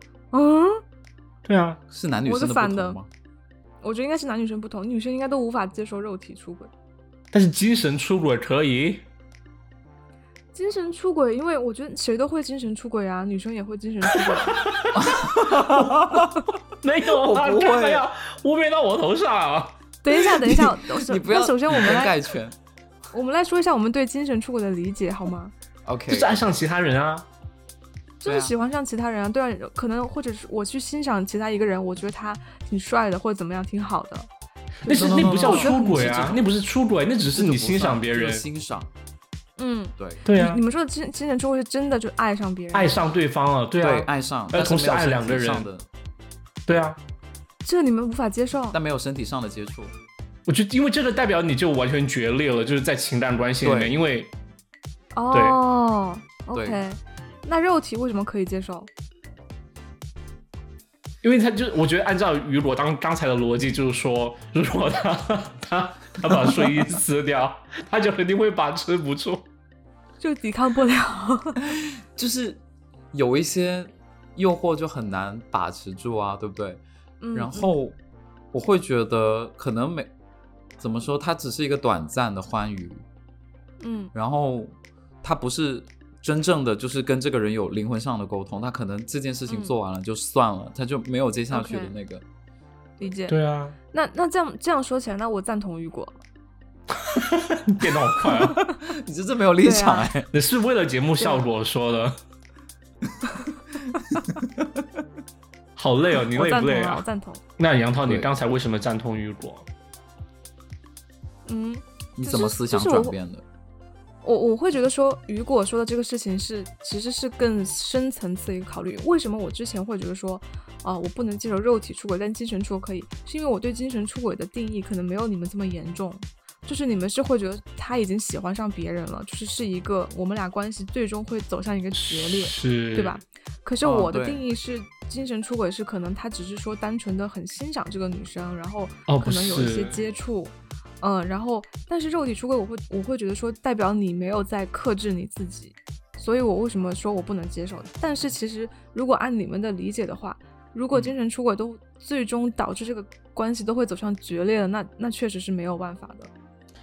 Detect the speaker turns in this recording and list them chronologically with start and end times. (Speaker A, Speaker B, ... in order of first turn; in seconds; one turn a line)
Speaker A: 0.3-0.8
Speaker B: 1.5-1.8
Speaker C: 1.9-3.1
Speaker A: 2.2-3.0
Speaker A: 3.8-6.7
Speaker B: 7.3-9.0
Speaker A: 10.5-14.7
Speaker B: 14.3-19.8
Speaker C: 14.9-16.4
Speaker C: 17.1-18.1
Speaker A: 20.0-22.1
Speaker C: 20.5-22.6
Speaker A: 23.1-25.5
Speaker C: 25.9-26.5
Speaker B: 26.1-27.3
Speaker A: 28.2-34.3
Speaker C: 28.2-28.5
Speaker A: 34.8-35.9
Speaker B: 34.8-38.4
Speaker C: 34.9-36.4
Speaker C: 37.3-38.9
Speaker A: 39.6-43.0
Speaker C: 40.0-40.2
Speaker B: 40.2-40.6
Speaker B: 42.7-45.7
Speaker C: 43.8-45.9
Speaker B: 46.7-47.0
Speaker A: 47.6-48.8
Speaker C: 48.7-50.0
Speaker B: 50.5-54.3
Speaker C: 53.6-54.0
Speaker A: 55.1-58.9
Speaker B: 55.3-55.6
Speaker C: 56.5-56.8
Speaker B: 61.2-69.5
Speaker A: 70.2-71.6
Speaker C: 71.7-72.6
Speaker C: 73.1-76.8
Speaker A: 77.2-77.7
Speaker C: 77.3-78.0
Speaker C: 78.5-80.1
Speaker C: 80.8-83.0
Speaker A: 83.8-84.1
Speaker C: 84.1-92.2
Speaker A: 89.5-89.7
Speaker A: 91.5-91.9
Speaker A: 93.0-93.4
Speaker B: 93.3-93.8
Speaker A: 93.9-96.2
Speaker B: 97.0-98.7
Speaker A: 98.5-98.8
Speaker C: 98.7-100.3
Speaker A: 99.6-100.1
Speaker B: 100.3-102.2
Speaker C: 103.9-104.8
Speaker B: 105.8-107.0
Speaker A: 106.3-107.4
Speaker B: 107.6-109.7
Speaker C: 108.0-108.3
Speaker A: 111.5-113.2
Speaker C: 112.2-113.4
Speaker A: 114.2-156.3
Speaker B: 131.9-133.2
Speaker C: 133.8-134.4
Speaker B: 139.1-140.0